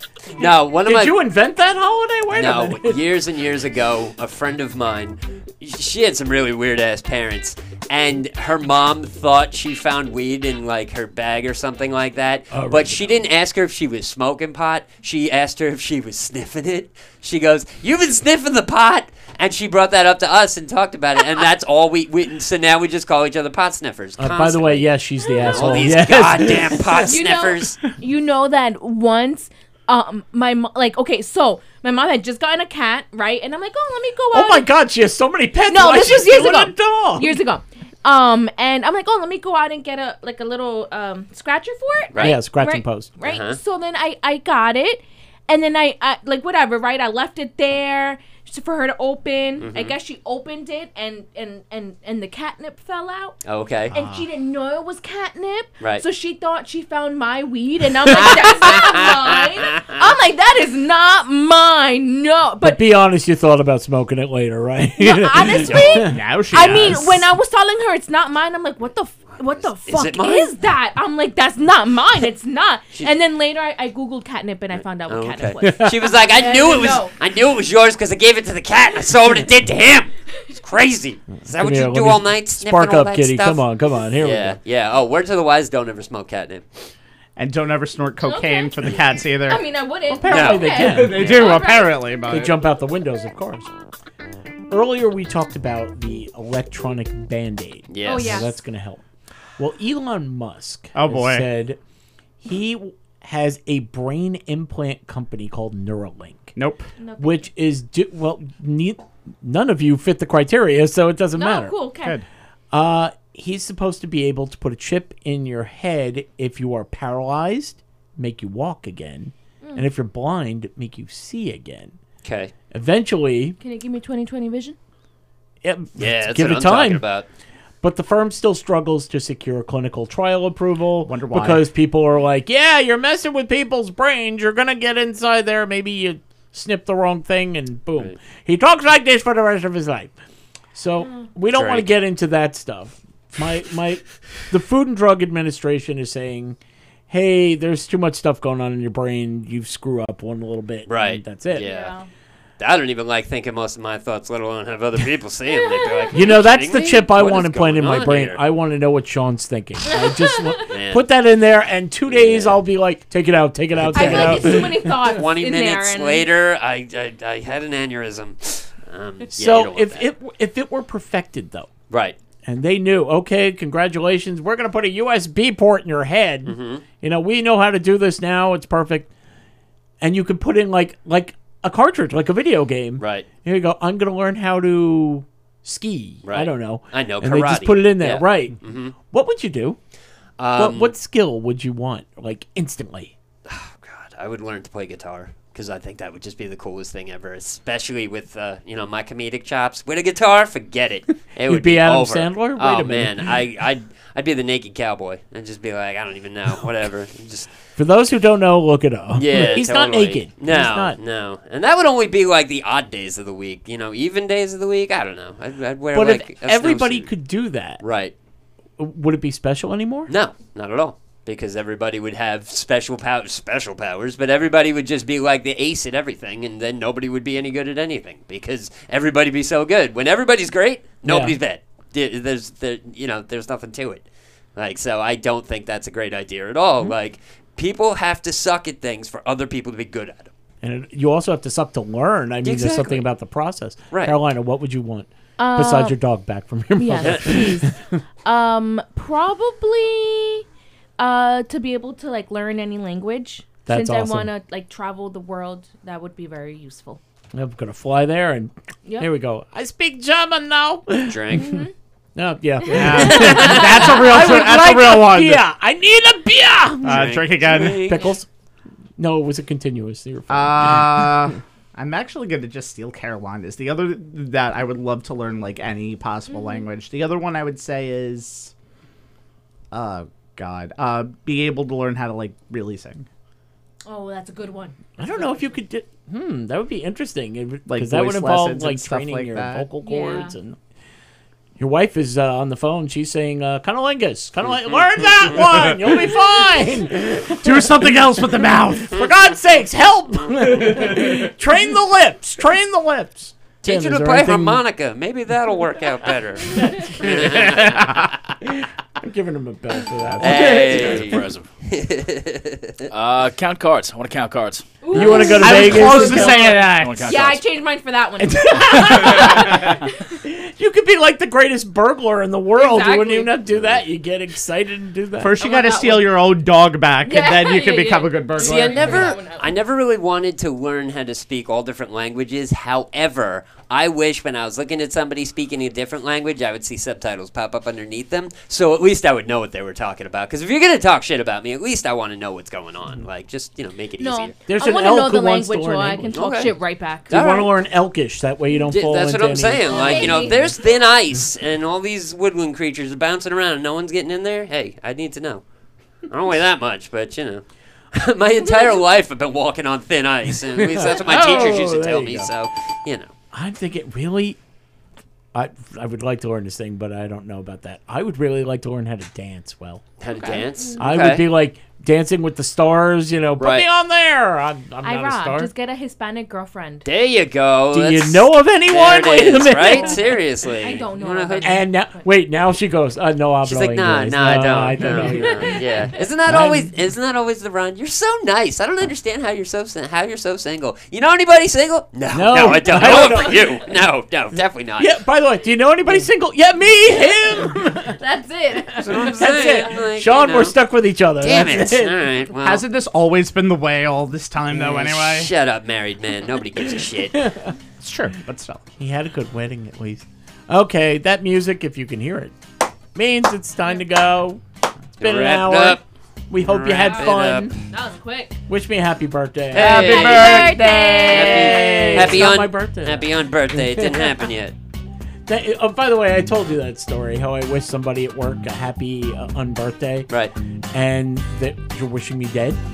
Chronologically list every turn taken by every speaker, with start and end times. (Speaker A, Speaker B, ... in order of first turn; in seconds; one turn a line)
Speaker A: 0.3-1.2
Speaker B: 0.7-3.0
Speaker A: 2.3-27.8
Speaker B: 12.5-13.2
Speaker B: 24.2-27.1
Speaker C: 27.1-34.7
Speaker B: 34.3-37.4
Speaker C: 35.7-53.4
Speaker B: 42.2-43.1
Speaker A: 43.2-43.6
Speaker A: 49.6-50.0
Speaker A: 53.4-53.9
Speaker C: 53.9-62.8
Speaker D: 53.9-54.2
Speaker A: 58.1-59.9
Speaker B: 62.6-66.2
Speaker C: 65.0-77.1
Speaker A: 65.6-66.1
Speaker D: 66.0-67.2
Speaker A: 69.6-70.5
Speaker A: 75.0-83.6
Speaker B: 75.6-76.0
Speaker B: 81.5-84.6
Speaker A: 84.2-86.6
Speaker D: 87.3-89.6
Speaker C: 88.2-88.9
Speaker C: 89.5-92.1
Speaker B: 90.1-91.4
Speaker A: 90.3-91.6
Speaker D: 90.7-92.5
Speaker B: 92.3-93.7
Speaker B: 94.7-99.0
Speaker A: 97.9-98.5
Speaker C: 98.0-98.5
Speaker B: 99.6-101.8
Speaker D: 100.9-101.5
Speaker B: 102.4-106.5
Speaker D: 106.5-106.9
Speaker C: 107.0-107.5
Speaker B: 107.2-111.7
Speaker C: 111.3-112.2
Speaker B: 112.7-121.9
Speaker A: 122.2-122.5
Speaker B: 122.7-123.6
Speaker C: 123.6-124.8
Speaker B: 125.6-127.0
Speaker A: 126.0-127.2
Speaker B: 127.8-140.1
Speaker D: 131.0-131.6
Speaker B: 140.7-146.6
Speaker A: 141.5-141.9
Speaker B: 147.1-151.7
Speaker A: 150.9-151.9
Speaker C: 151.5-152.1
Speaker A: 152.6-158.4
Speaker C: 155.5-156.1
Speaker B: 156.1-165.1
Speaker C: 159.9-160.6
Speaker A: 160.7-161.1
Speaker A: 162.1-162.6
Speaker A: 163.8-170.0
Speaker C: 163.9-166.2
Speaker B: 169.3-171.7
Speaker A: 171.9-172.2
Speaker B: 172.4-179.1
Speaker A: 176.4-176.8
Speaker B: 180.0-189.8
Speaker A: 183.0-183.3
Speaker A: 186.2-188.9
Speaker A: 190.4-190.9
Speaker B: 190.6-193.1
Speaker A: 193.4-207.5
Speaker B: 201.4-203.3
Speaker B: 207.8-211.0
Speaker A: 209.1-217.1
Speaker B: 215.9-217.8
Speaker A: 217.8-218.1
Speaker B: 218.8-220.1
Speaker A: 220.1-234.0
Speaker B: 231.0-231.4
Speaker A: 234.6-240.3
Speaker B: 240.6-247.8
Speaker A: 242.4-243.1
Speaker A: 243.9-244.2
Speaker C: 245.4-246.0
Speaker C: 246.8-247.7
Speaker A: 247.0-247.4
Speaker C: 248.2-250.4
Speaker C: 251.0-257.0
Speaker B: 253.7-254.3
Speaker B: 257.3-261.6
Speaker A: 261.1-261.6
Speaker C: 261.3-261.7
Speaker B: 262.1-268.3
Speaker C: 262.6-263.5
Speaker D: 262.7-265.4
Speaker A: 263.0-263.9
Speaker D: 266.8-268.1
Speaker A: 266.8-268.1
Speaker B: 269.0-271.2
Speaker D: 270.3-278.5
Speaker C: 276.3-276.6
Speaker D: 279.7-283.1
Speaker C: 283.9-285.5
Speaker B: 285.0-290.6
Speaker D: 287.7-289.7
Speaker C: 289.8-290.3
Speaker B: 291.6-304.6
Speaker D: 297.3-299.0
Speaker A: 303.6-308.0
Speaker B: 306.6-306.9
Speaker D: 307.0-308.1
Speaker B: 308.4-311.2
Speaker E: 310.0-311.5
Speaker A: 310.2-312.9
Speaker E: 312.9-317.4
Speaker C: 314.8-320.1
Speaker B: 314.9-316.6
Speaker D: 315.2-317.1
Speaker B: 318.2-325.4
Speaker C: 322.5-323.3
Speaker A: 323.5-323.8
Speaker D: 325.2-329.2
Speaker C: 325.4-326.1
Speaker C: 327.0-329.5
Speaker A: 328.4-344.4
Speaker C: 344.0-347.1
Speaker B: 344.5-346.5
Speaker A: 346.1-346.5
Speaker A: 347.1-347.5
Speaker B: 347.1-350.5
Speaker A: 348.7-355.4
Speaker C: 349.7-350.5
Speaker A: 356.1-357.4
Speaker A: 357.9-363.1
Speaker B: 360.5-362.3
Speaker B: 363.3-364.4
Speaker B: 365.3-369.8
Speaker A: 370.0-371.2
Speaker C: 370.1-370.8
Speaker B: 370.8-375.5
Speaker A: 373.4-373.7
Speaker C: 374.8-376.8
Speaker A: 376.8-381.6
Speaker B: 377.7-380.2
Speaker C: 379.4-382.0
Speaker B: 381.4-386.7
Speaker A: 383.4-394.9
Speaker C: 384.9-386.0
Speaker B: 392.1-393.6
Speaker C: 392.8-393.1
Speaker B: 394.3-398.0
Speaker C: 397.3-399.6
Speaker B: 398.7-402.1
Speaker A: 398.8-400.5
Speaker A: 401.2-402.6
Speaker D: 402.4-405.3
Speaker A: 404.5-407.3
Speaker B: 407.1-407.5
Speaker D: 407.8-408.6
Speaker B: 408.8-412.3
Speaker B: 412.9-414.4
Speaker B: 414.9-417.6
Speaker A: 415.0-415.8
Speaker A: 416.4-417.5
Speaker C: 416.8-417.2
Speaker C: 417.7-418.4
Speaker B: 418.5-424.2
Speaker A: 419.5-424.5
Speaker C: 419.5-422.2
Speaker B: 425.3-430.1
Speaker B: 430.7-432.6